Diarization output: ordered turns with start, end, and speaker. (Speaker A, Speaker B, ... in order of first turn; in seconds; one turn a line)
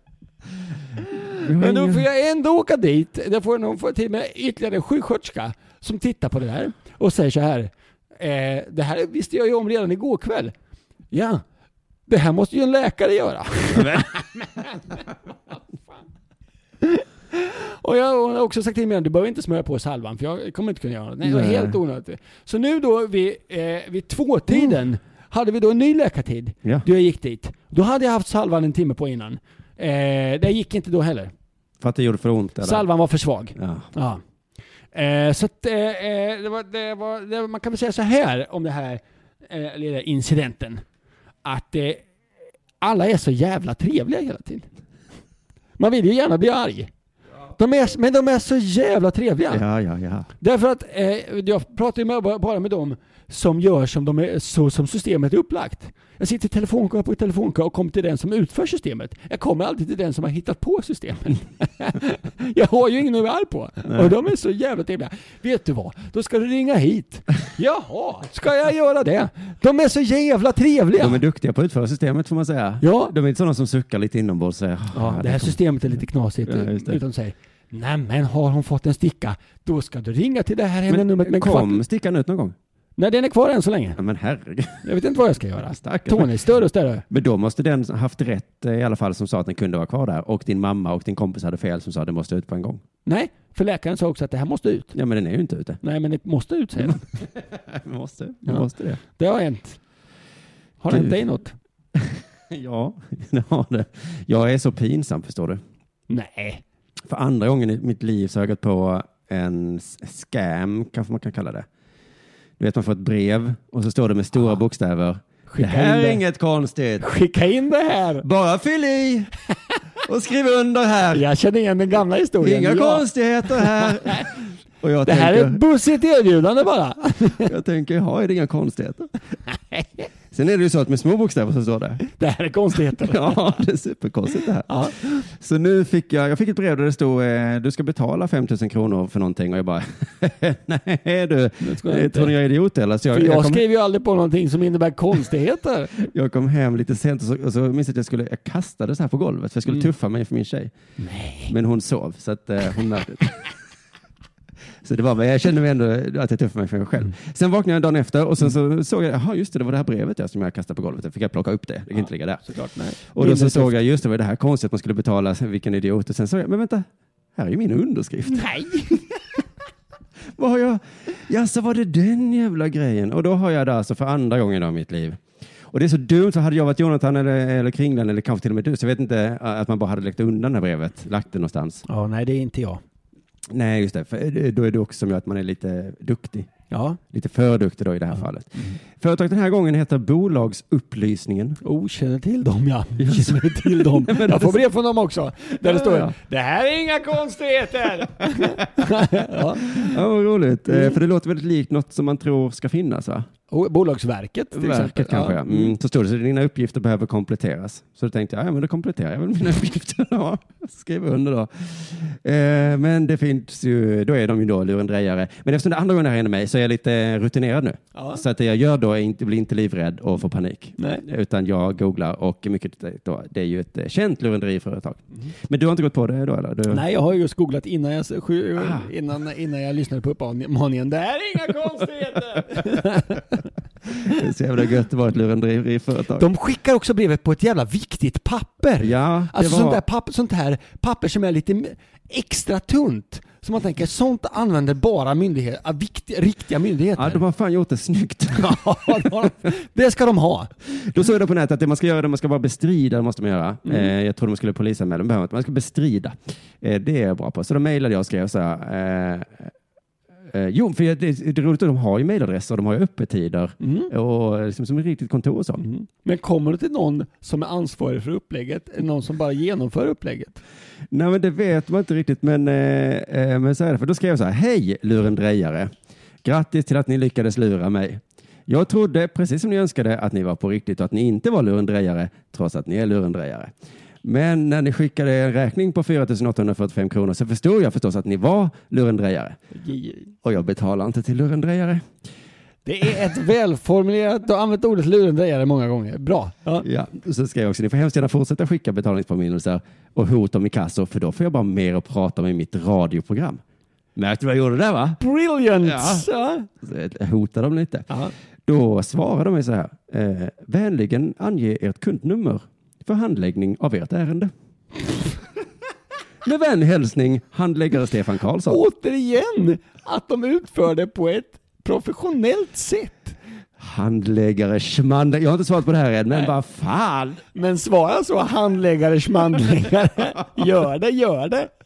Speaker A: 1.3-10.5
Speaker B: 1.4-2.0
Speaker A: 11.1-11.4
Speaker A: 12.1-15.6
Speaker A: 16.8-31.3
Speaker B: 21.2-21.8
Speaker B: 31.8-32.9
Speaker A: 32.6-34.2
Speaker B: 33.6-33.9
Speaker A: 34.9-40.8
Speaker A: 41.5-42.1
Speaker A: 42.8-44.7
Speaker A: 45.8-46.9
Speaker A: 47.6-49.6
Speaker B: 49.5-50.3
Speaker A: 50.4-71.2
Speaker B: 71.0-75.6
Speaker A: 72.8-73.1
Speaker A: 74.9-81.8
Speaker B: 76.5-77.0
Speaker B: 80.9-82.6
Speaker A: 83.0-84.0
Speaker B: 84.0-84.9
Speaker A: 84.8-87.0
Speaker B: 85.6-86.3
Speaker B: 87.1-92.8
Speaker A: 93.1-95.0
Speaker B: 94.9-95.8
Speaker A: 95.8-97.0
Speaker B: 96.8-99.0
Speaker A: 98.5-99.8
Speaker A: 100.8-101.5
Speaker B: 100.9-101.2
Speaker B: 102.0-105.6
Speaker A: 106.1-106.6
Speaker B: 107.1-111.7
Speaker B: 112.6-117.1
Speaker A: 115.5-116.2
Speaker A: 117.0-118.3
Speaker B: 118.2-119.3
Speaker B: 120.0-121.2
Speaker A: 121.1-124.2
Speaker B: 122.4-125.6
Speaker A: 125.0-127.5
Speaker B: 127.4-129.1
Speaker A: 129.7-130.1
Speaker B: 130.3-132.0
Speaker A: 132.2-133.6
Speaker B: 132.9-143.6
Speaker A: 134.7-135.2
Speaker A: 141.6-142.3
Speaker A: 143.1-145.9
Speaker B: 146.0-150.7
Speaker A: 151.0-151.5
Speaker B: 151.5-153.5
Speaker B: 154.8-162.4
Speaker A: 161.9-163.8
Speaker B: 163.1-168.6
Speaker A: 168.3-169.2
Speaker B: 170.3-181.8
Speaker A: 181.9-182.8
Speaker B: 183.5-186.5
Speaker A: 186.7-187.0
Speaker B: 187.1-191.6
Speaker A: 191.6-200.0
Speaker B: 193.0-194.6
Speaker B: 195.6-196.2
Speaker B: 199.7-203.3
Speaker A: 200.7-201.0
Speaker A: 203.5-205.7
Speaker B: 204.6-226.8
Speaker A: 217.9-218.2
Speaker A: 220.8-221.0
Speaker A: 226.7-233.4
Speaker B: 228.6-228.9
Speaker B: 234.0-236.3
Speaker A: 236.2-247.2
Speaker B: 238.8-239.8
Speaker B: 247.0-249.3
Speaker A: 248.3-250.5
Speaker B: 250.7-259.5
Speaker A: 253.7-253.9
Speaker B: 260.3-265.6
Speaker A: 263.6-263.9
Speaker A: 265.6-270.4
Speaker B: 270.9-275.7
Speaker B: 276.2-289.4
Speaker A: 289.5-290.1
Speaker B: 290.2-291.9
Speaker A: 292.7-296.6
Speaker B: 296.6-303.4
Speaker B: 304.0-305.0
Speaker A: 305.0-306.5
Speaker B: 305.6-306.1
Speaker B: 306.6-307.9
Speaker B: 308.5-314.3
Speaker B: 316.2-318.6
Speaker A: 318.5-323.2
Speaker B: 323.6-327.2
Speaker A: 327.4-331.5